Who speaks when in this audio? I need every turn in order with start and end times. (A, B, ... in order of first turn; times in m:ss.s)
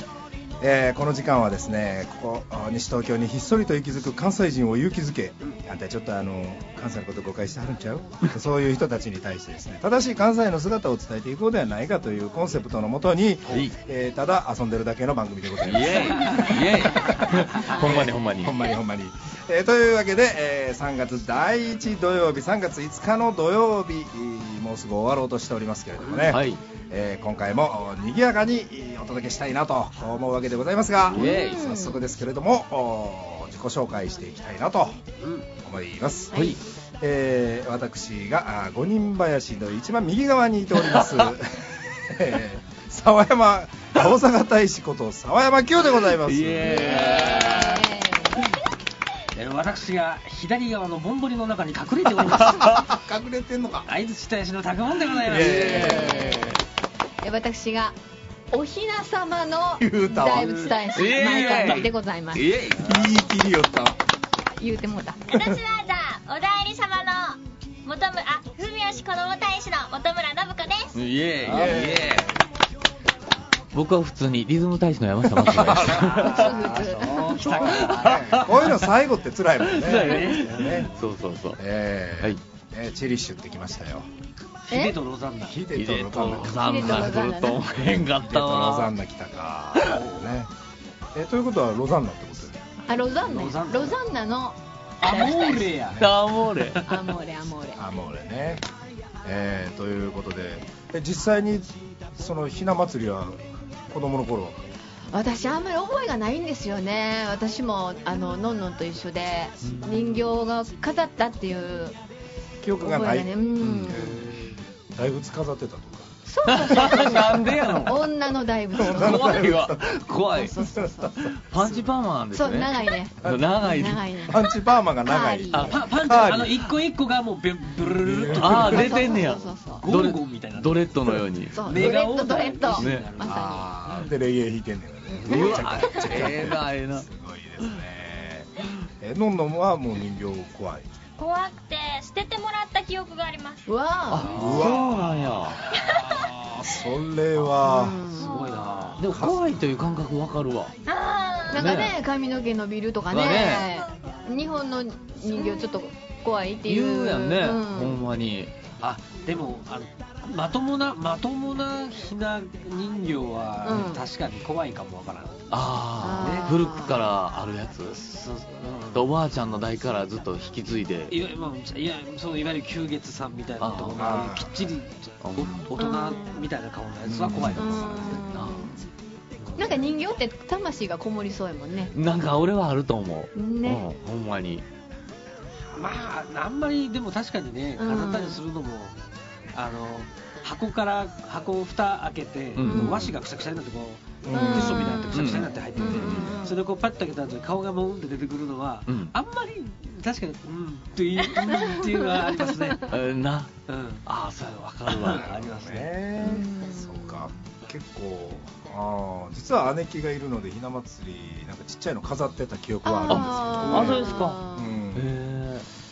0:00.6-0:35.0 A
0:13.5-0:13.8 B
0:15.6-0:18.6 B
0:16.0-0:17.8 C
0:26.3-0:26.6 B
0:31.1-0:31.6 B
0:31.1-0:32.0 D
0:35.2-0:35.5 C
0:35.6-0:36.5 A
0:37.0-0:47.1 A
0:40.9-0:41.3 B
0:46.1-0:47.9 B
0:46.6-0:48.5 D
0:49.3-0:52.9 C
0:52.2-0:52.8 B
0:52.6-0:53.9 A
0:53.9-0:56.4 C
0:55.3-0:56.4 A
0:55.3-0:56.6 B
0:55.8-0:56.6 D
0:57.2-0:58.0 D
0:58.5-1:02.5 D
0:59.8-1:00.7 A
1:00.3-1:01.9 C
1:00.9-1:03.1 B
1:02.8-1:04.0 A
1:04.6-1:05.2 D
1:05.3-1:11.0 E
1:11.0-1:12.3 B
1:11.4-1:11.8 C
1:11.4-1:12.3 A
1:13.7-1:16.6 B
1:15.3-1:16.2 A
1:15.8-1:18.8 C
1:16.1-1:17.5 D
1:17.1-1:20.9 A
1:17.4-1:18.6 B
1:19.7-1:21.6 B
1:19.8-1:21.0 C
1:21.6-1:24.1 A
1:24.7-1:25.0 D
1:24.7-1:25.6 C
1:25.5-1:27.2 A
1:25.7-1:28.9 B
1:26.5-1:27.6 D
1:27.7-1:30.5 A
1:29.8-1:30.3 C
1:31.1-1:32.7 A
1:32.9-1:35.8 D
1:33.2-1:34.0 C
1:35.0-1:37.1 C
1:36.0-1:36.8 B
1:36.8-1:37.8 D
1:37.8-1:38.6 A
1:39.2-1:44.6 A
1:45.1-1:52.0 D
1:49.6-1:49.9 B
1:49.9-1:50.2 C
1:52.6-1:53.3 A
1:52.8-1:54.1 D
1:53.6-1:54.1 B
1:53.9-1:56.1 A
1:53.9-1:54.6 C
1:56.3-1:59.4 D
1:56.5-1:58.1 B
1:58.8-2:00.0 A
1:58.8-2:00.6 B
2:00.4-2:01.2 D
2:00.6-2:01.8 A
2:01.5-2:04.1 B
2:02.3-2:04.5 D
2:03.2-2:03.6 A
2:04.3-2:06.7 A
2:05.0-2:05.8 D
2:05.5-2:05.8 B
2:05.6-2:14.1 C
2:07.8-2:08.9 A
2:08.3-2:12.0 B
2:08.6-2:09.8 D
2:11.5-2:13.7 D
2:12.7-2:13.1 B
2:13.2-2:21.0 A
2:15.1-2:16.1 D
2:15.2-2:17.1 B
2:21.2-2:23.7 E
2:23.7-2:24.3 D
2:24.1-2:25.6 B
2:24.2-2:25.2 C
2:24.3-2:25.0 A
2:25.7-2:26.2 E
2:26.4-2:28.0 A
2:27.6-2:28.4 D
2:28.1-2:29.0 C
2:28.2-2:28.8 E
2:29.0-2:30.7 B
2:29.0-2:29.6 A
2:30.9-2:31.8 E
2:31.5-2:38.0 D
2:31.5-2:32.0 B
2:33.1-2:33.7 B
2:35.4-2:35.7 E
2:36.7-2:38.5 B
2:38.8-2:45.5 C
2:43.6-2:44.0 D
2:45.5-2:48.0 B
2:46.0-2:47.0 D
2:46.2-2:46.5 C
2:47.9-2:49.1 C
2:48.9-2:51.2 B
2:51.1-2:58.2 C
2:53.6-2:54.2 B
2:53.9-2:54.8 A
2:55.2-2:55.7 B
2:55.8-2:56.5 D
2:57.1-2:58.7 B
2:57.6-2:58.8 D
2:59.4-2:59.9 C
2:59.6-3:01.9 D
3:01.9-3:04.6 B
3:03.4-3:03.9 D
3:05.8-3:09.0 C
3:07.8-3:08.4 D
3:09.5-3:23.0 C
3:12.6-3:13.0 B
3:12.6-3:13.1 D
3:14.2-3:15.3 A
3:14.3-3:16.6 D
3:15.1-3:16.4 B
3:18.9-3:19.1 B
3:21.4-3:22.8 D
3:22.9-3:23.5 B
3:23.7-3:24.1 C
3:24.0-3:25.3 B
3:24.8-3:26.2 C
3:25.0-3:35.2 A
3:26.2-3:27.3 D
3:32.8-3:34.8 D
3:33.1-3:34.4 B
3:33.6-3:34.0 C
3:34.9-3:35.7 B